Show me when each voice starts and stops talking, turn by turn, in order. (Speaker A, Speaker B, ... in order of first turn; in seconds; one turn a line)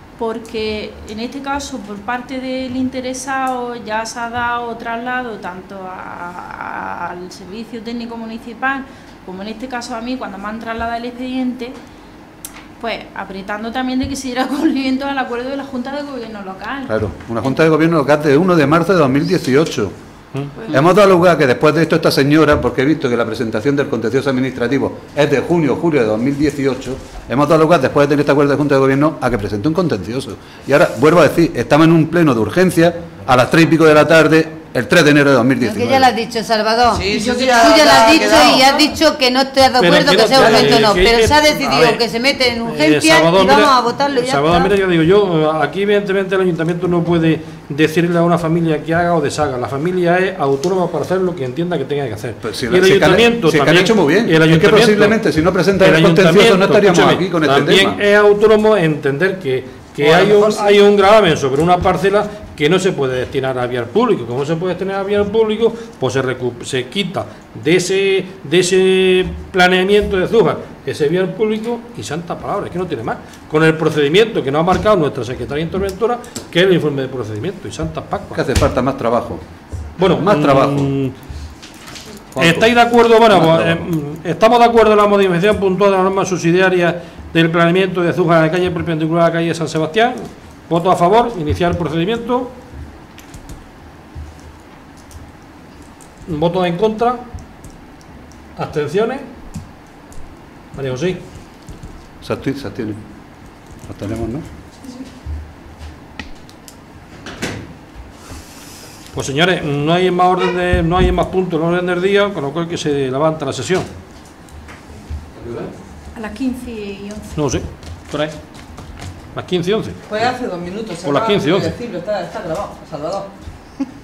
Speaker A: 0.2-11.8
Speaker A: 12.8-17.6
Speaker B: 16.9-19.9
Speaker A: 20.6-20.8
Speaker B: 20.7-36.1
Speaker C: 35.6-44.7
Speaker D: 36.9-38.9
Speaker E: 39.8-42.0
Speaker E: 42.6-55.2
Speaker B: 52.4-58.0
Speaker E: 55.8-78.4
Speaker D: 60.0-60.9
Speaker B: 78.3-79.4
Speaker E: 80.0-81.1
Speaker B: 80.0-80.9
Speaker B: 82.3-82.7
Speaker E: 82.4-92.5
Speaker B: 83.3-83.8
Speaker E: 96.3-97.2
Speaker E: 98.5-99.3
Speaker E: 100.7-101.2
Speaker B: 102.2-103.0
Speaker B: 103.8-104.4
Speaker E: 109.1-113.9
Speaker B: 115.3-115.7
Speaker A: 116.1-117.4
Speaker E: 117.3-118.4
Speaker E: 119.3-120.1
Speaker D: 120.1-123.3
Speaker E: 121.0-121.7